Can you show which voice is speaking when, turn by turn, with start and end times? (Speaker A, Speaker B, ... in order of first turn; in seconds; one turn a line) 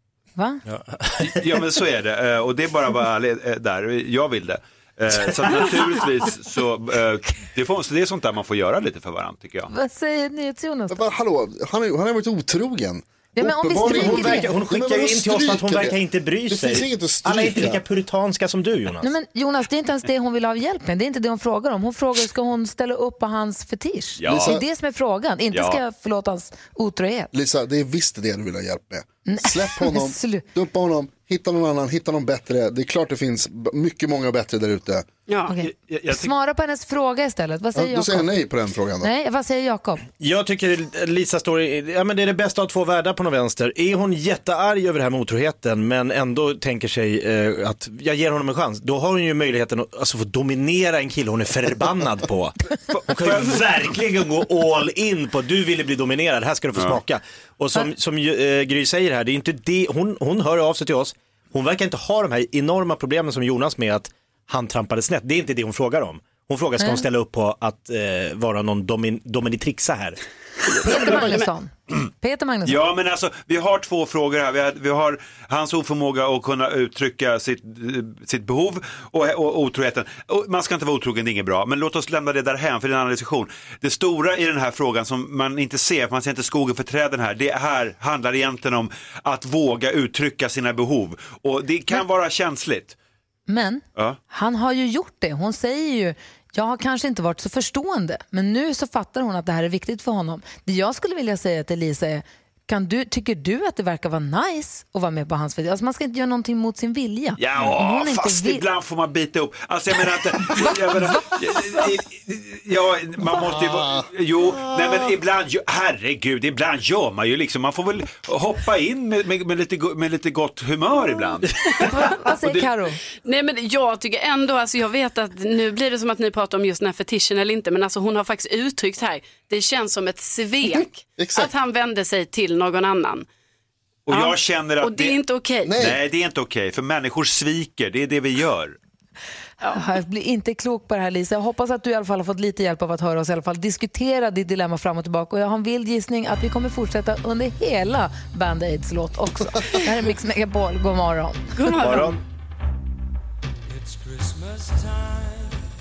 Speaker A: 0.3-0.6
Speaker B: 0.7-1.4
Speaker C: 1.2-9.7
Speaker A: 9.7-11.0
Speaker D: 10.9-17.8
Speaker A: 13.3-14.5
Speaker B: 13.8-19.1
Speaker A: 19.0-27.3
Speaker C: 24.2-24.6
Speaker D: 24.2-24.6
Speaker C: 25.5-25.8
Speaker D: 27.3-35.0
Speaker A: 29.2-30.4
Speaker E: 35.3-35.5
Speaker A: 35.5-38.3
Speaker C: 35.6-36.3
Speaker D: 37.7-39.1
Speaker A: 39.0-40.0
Speaker B: 40.2-70.2
Speaker C: 52.9-53.6
Speaker C: 56.7-57.0
Speaker A: 66.8-67.0
Speaker E: 70.8-71.5
Speaker A: 70.8-72.8
Speaker C: 72.6-93.0
Speaker A: 93.5-108.6
Speaker C: 107.4-122.8
Speaker D: 113.4-114.1
Speaker A: 121.9-123.0
Speaker E: 123.2-133.2
Speaker D: 131.2-131.5
Speaker C: 134.1-138.8
Speaker E: 134.1-135.7
Speaker D: 135.7-136.0
Speaker A: 139.6-152.0
Speaker E: 151.5-152.2
Speaker B: 151.8-152.2